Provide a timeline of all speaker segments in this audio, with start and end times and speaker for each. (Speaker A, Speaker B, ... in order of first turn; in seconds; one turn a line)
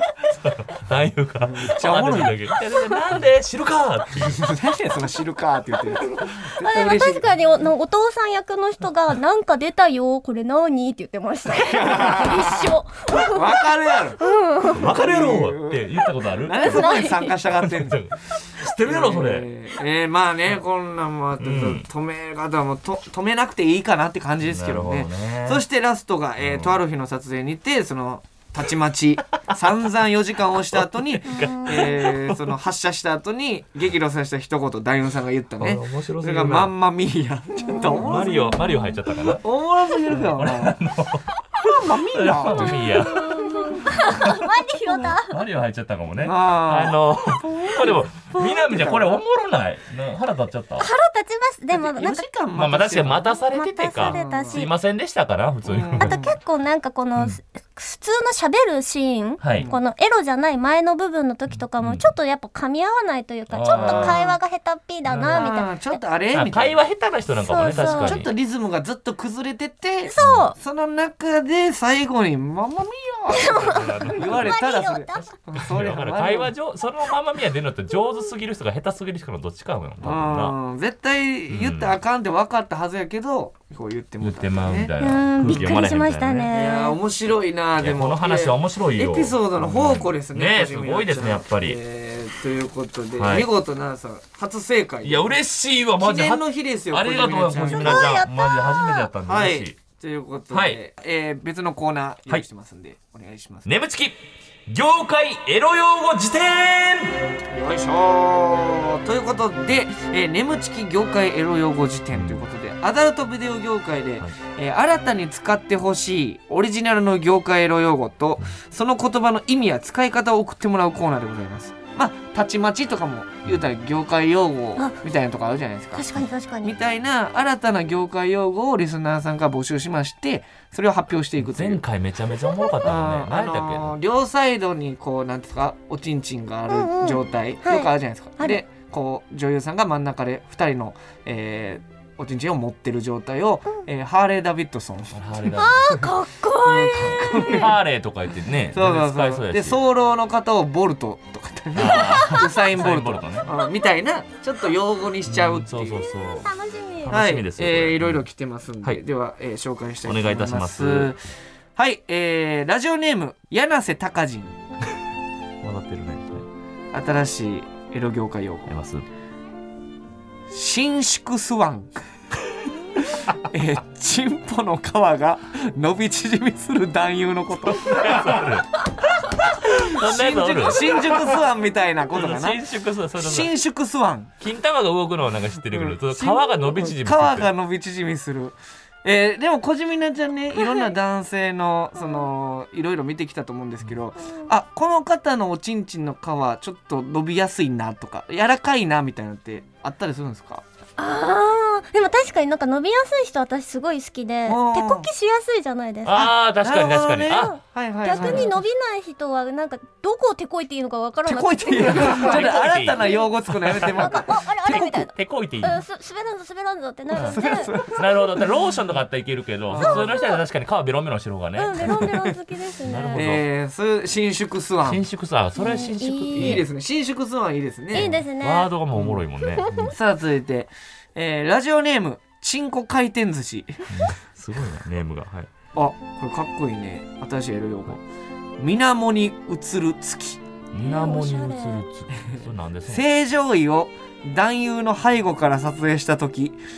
Speaker A: 0.3-4.5
Speaker B: 1.5-2.5
Speaker B: 4.3-7.2
Speaker C: 6.6-14.9
Speaker B: 11.6-14.2
Speaker A: 14.7-19.5
Speaker B: 14.8-38.6
Speaker C: 16.6-17.3
Speaker A: 21.4-21.9
Speaker A: 24.4-25.6
Speaker A: 26.4-26.8
Speaker A: 30.6-32.5
Speaker C: 31.3-31.9
Speaker A: 35.6-36.7
Speaker C: 37.6-39.0
Speaker A: 37.8-39.4
Speaker B: 39.4-40.8
Speaker A: 40.1-41.3
Speaker B: 41.6-43.0
Speaker A: 41.9-43.5
Speaker C: 42.5-45.4
Speaker A: 44.1-44.5
Speaker A: 45.2-50.9
Speaker B: 46.2-49.1
Speaker C: 50.8-52.3
Speaker B: 51.7-53.3
Speaker A: 52.5-56.2
Speaker C: 53.5-54.7
Speaker B: 53.9-54.6
Speaker B: 55.7-56.3
Speaker C: 56.0-66.0
Speaker A: 59.4-59.7
Speaker A: 61.5-62.1
Speaker A: 63.5-64.2
Speaker B: 63.7-64.4
Speaker A: 65.1-65.6
Speaker B: 65.3-66.8
Speaker A: 66.3-68.3
Speaker C: 67.5-68.2
Speaker B: 67.6-76.5
Speaker C: 70.1-70.6
Speaker A: 70.2-70.5
Speaker C: 73.3-75.3
Speaker A: 73.4-74.6
Speaker A: 75.2-80.5
Speaker B: 80.0-84.9
Speaker A: 81.5-82.0
Speaker A: 84.2-86.5
Speaker C: 85.0-87.0
Speaker B: 86.5-95.3
Speaker A: 87.8-91.8
Speaker A: 93.2-93.5
Speaker A: 95.0-99.8
Speaker B: 96.0-98.1
Speaker C: 97.7-99.1
Speaker B: 99.3-103.7
Speaker A: 100.5-100.8
Speaker A: 103.7-107.3
Speaker B: 107.5-126.0
Speaker A: 112.1-112.5
Speaker C: 126.0-126.8
Speaker B: 126.6-131.8
Speaker A: 131.4-134.0
Speaker B: 132.8-145.2
Speaker C: 136.7-138.6
Speaker A: 145.1-146.1
Speaker C: 145.6-147.7
Speaker B: 146.6-147.7
Speaker A: 147.5-149.8
Speaker B: 148.7-156.1
Speaker A: 151.8-153.5
Speaker C: 151.9-152.5
Speaker A: 155.3-158.2
Speaker C: 156.0-157.1
Speaker B: 157.1-161.2
Speaker A: 160.0-161.1
Speaker B: 161.8-164.6
Speaker A: 165.6-166.5
Speaker B: 166.9-168.7
Speaker A: 168.7-169.1
Speaker B: 170.5-172.0
Speaker B: 173.0-178.4
Speaker A: 177.7-178.8
Speaker B: 179.4-182.6
Speaker A: 179.4-181.2
Speaker A: 182.1-183.5
Speaker B: 183.2-184.3
Speaker A: 184.4-187.5
Speaker B: 185.7-200.6
Speaker C: 190.6-190.9
Speaker C: 192.0-192.3
Speaker C: 201.0-206.3
Speaker B: 204.5-205.1
Speaker A: 206.1-207.6
Speaker B: 206.6-208.5
Speaker C: 207.3-212.4
Speaker A: 208.1-208.5
Speaker B: 211.2-214.3
Speaker A: 211.9-215.8
Speaker C: 213.7-217.7
Speaker A: 217.1-222.2
Speaker B: 217.2-218.4
Speaker B: 219.7-220.2
Speaker C: 221.6-223.3
Speaker B: 221.8-222.3
Speaker A: 222.8-223.4
Speaker B: 223.1-225.0
Speaker A: 224.9-226.7
Speaker C: 225.6-226.6
Speaker B: 226.3-228.2
Speaker C: 227.9-228.7
Speaker A: 227.9-229.9
Speaker C: 229.6-229.9
Speaker B: 229.9-233.9
Speaker A: 233.9-235.5
Speaker B: 235.8-238.0
Speaker B: 238.6-240.4
Speaker A: 240.7-243.1
Speaker C: 240.8-241.9
Speaker B: 242.1-246.6